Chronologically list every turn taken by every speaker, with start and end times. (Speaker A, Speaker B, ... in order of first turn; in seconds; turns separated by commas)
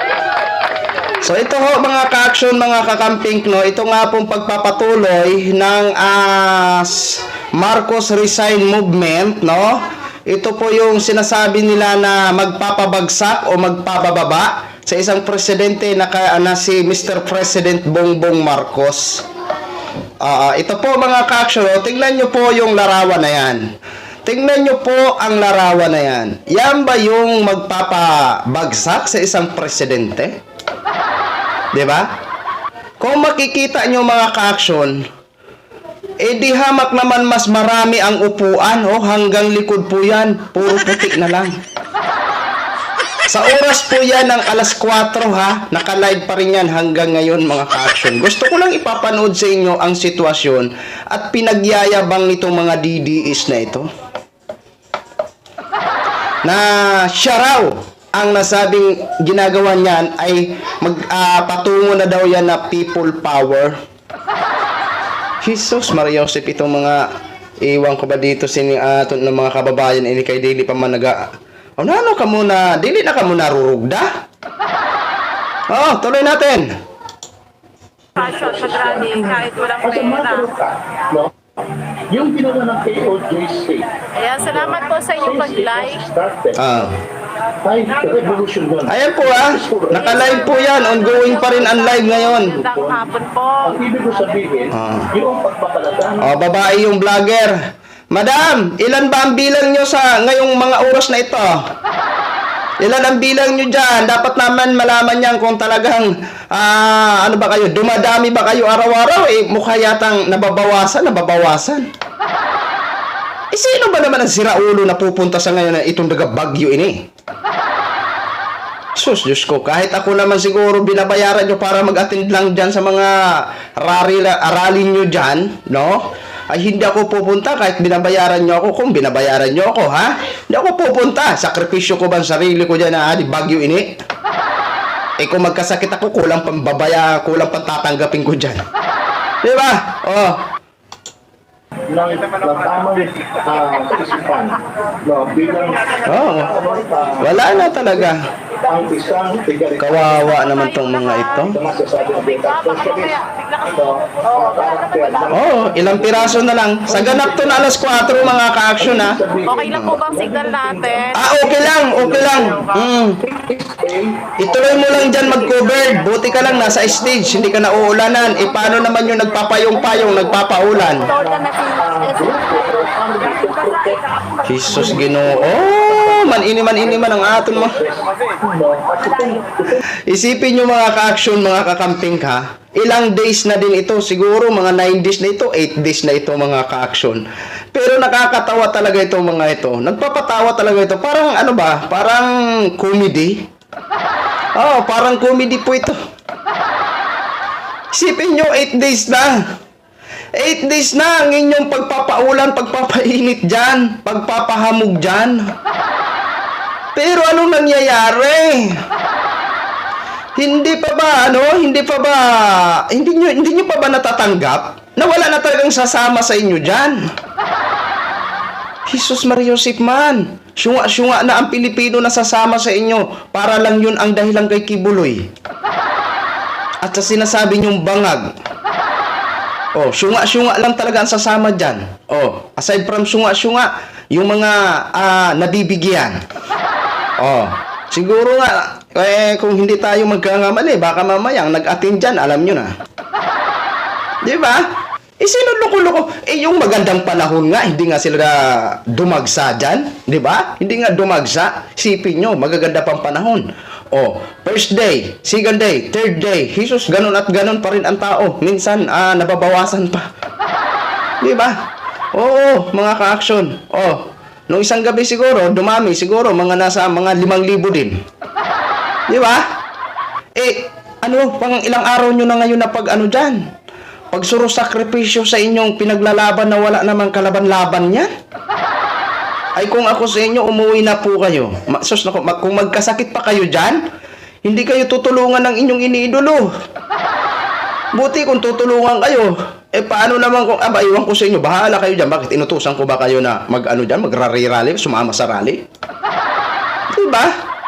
Speaker A: 1.2-19.2, Speaker A: 20.2-23.6, Speaker A: 24.2-30.4, Speaker A: 31.7-32.1, Speaker A: 33.0-35.0, Speaker A: 36.2-41.5, Speaker A: 43.3-53.9, Speaker A: 56.4-63.8, Speaker A: 65.4-67.1, Speaker A: 67.6-71.2, Speaker A: 71.8-74.1, Speaker A: 75.7-76.7, Speaker B: 78.2-81.3, Speaker C: 78.2-80.5, Speaker B: 82.1-86.8, Speaker C: 84.2-86.0, Speaker A: 86.5-86.9, Speaker B: 87.6-90.5, Speaker A: 88.8-92.6, Speaker C: 91.2-93.7, Speaker B: 92.5-93.1, Speaker B: 93.6-96.3, Speaker A: 94.7-95.1, Speaker A: 96.2-97.5, Speaker A: 98.1-101.6, Speaker A: 102.8-111.8, Speaker A: 113.5-117.0, Speaker A: 119.0-134.0, Speaker A: 135.2-138.6, Speaker A: 139.4-140.4, Speaker B: 141.9-148.1, Speaker A: 146.1-146.6, Speaker A: 147.2-148.2, Speaker B: 148.6-150.3, Speaker A: 149.8-151.6, Speaker C: 150.4-151.5, Speaker B: 151.5-162.7, Speaker C: 152.7-153.6, Speaker A: 155.3-159.2, Speaker C: 159.5-161.2, Speaker A: 159.7-160.0, Speaker A: 161.1-163.2, Speaker B: 163.2-179.8, Speaker A: 164.4-171.1, Speaker A: 174.4-177.7, Speaker A: 180.1-193.4, Speaker A: 194.6-196.0, Speaker A: 197.9-199.4, Speaker A: 200.3-205.4, Speaker A: 206.9-208.8, Speaker A: 210.3-217.0, Speaker A: 218.9-225.3, Speaker A: 226.8-228.3, Speaker A: 229.7-236.2, Speaker A: 237.2-242.7, Speaker A: 244.2-244.6, Speaker A: 245.2-260.1, Speaker A: 261.2-261.6, Speaker A: 262.1-267.9, Speaker A: 269.1-269.4, Speaker A: 270.4-273.4, Speaker A: 274.1-278.1, Speaker A: 279.6-283.8, Speaker A: 284.4-286.5, Speaker A: 287.9-295.6, Speaker A: 296.9-297.3